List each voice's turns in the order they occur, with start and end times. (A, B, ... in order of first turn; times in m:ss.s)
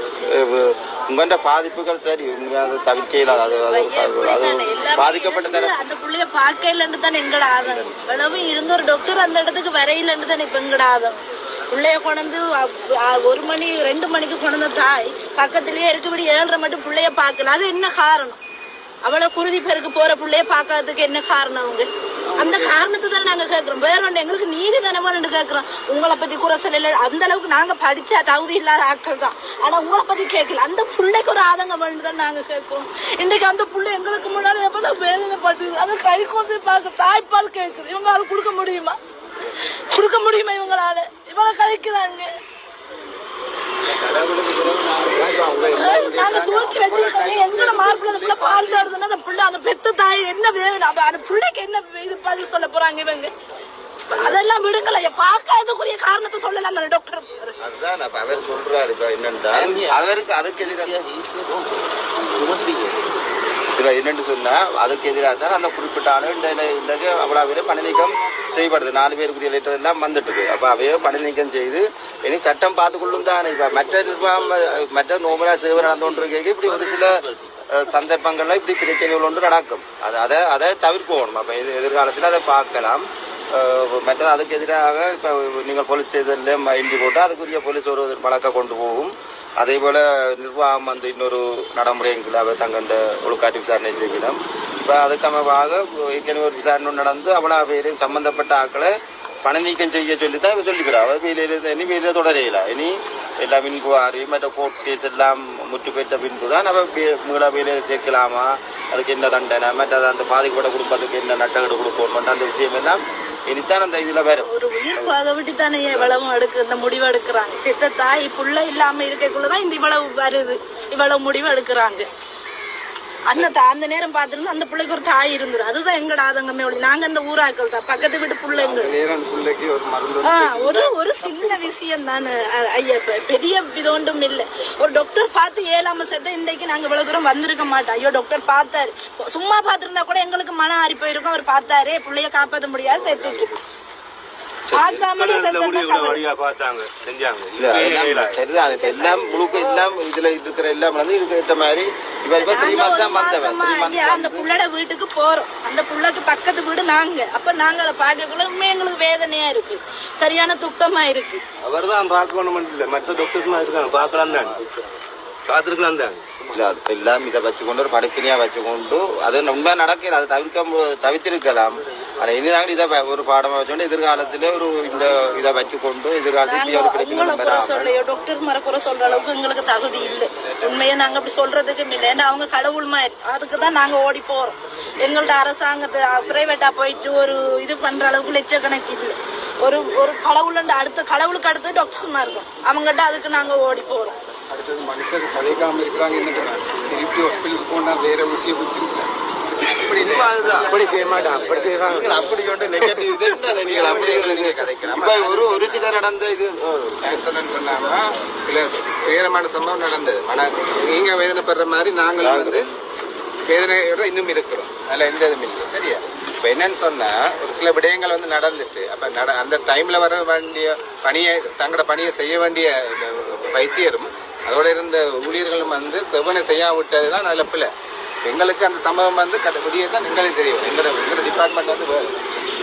0:00.3-0:05.8 A
0:03.4-0:11.2 B
0:11.7-0:18.4 B
0:19.0-0:39.0 B
0:22.3-0:22.8 C
0:39.9-0:42.3 B
0:43.9-0:48.9 C
0:45.7-0:53.3 B
0:54.1-0:57.6 B
0:57.6-1:01.0 A
0:59.6-1:00.0 D
1:00.7-1:01.8 D
1:02.3-1:03.0 D
1:03.7-1:55.2 A
1:14.0-1:17.6 D
1:54.5-2:02.1 B
1:55.8-1:56.2 A
2:03.3-2:09.0 B
2:08.5-2:11.6 C
2:10.2-2:23.6 B
2:24.7-2:28.4 D
2:24.7-2:26.2 B
2:27.6-2:34.5 A
2:32.4-2:41.4 B
2:41.6-2:44.6 D
2:45.5-2:46.2 D
2:46.5-2:57.9 A
2:56.4-3:14.2 B
3:14.5-3:22.3 C
3:19.9-3:22.2 D
3:21.8-3:27.0 A
3:23.6-3:26.0 C
3:27.0-3:32.7 C
3:32.2-3:32.7 A
3:33.4-3:47.7 C
3:48.2-3:52.2 C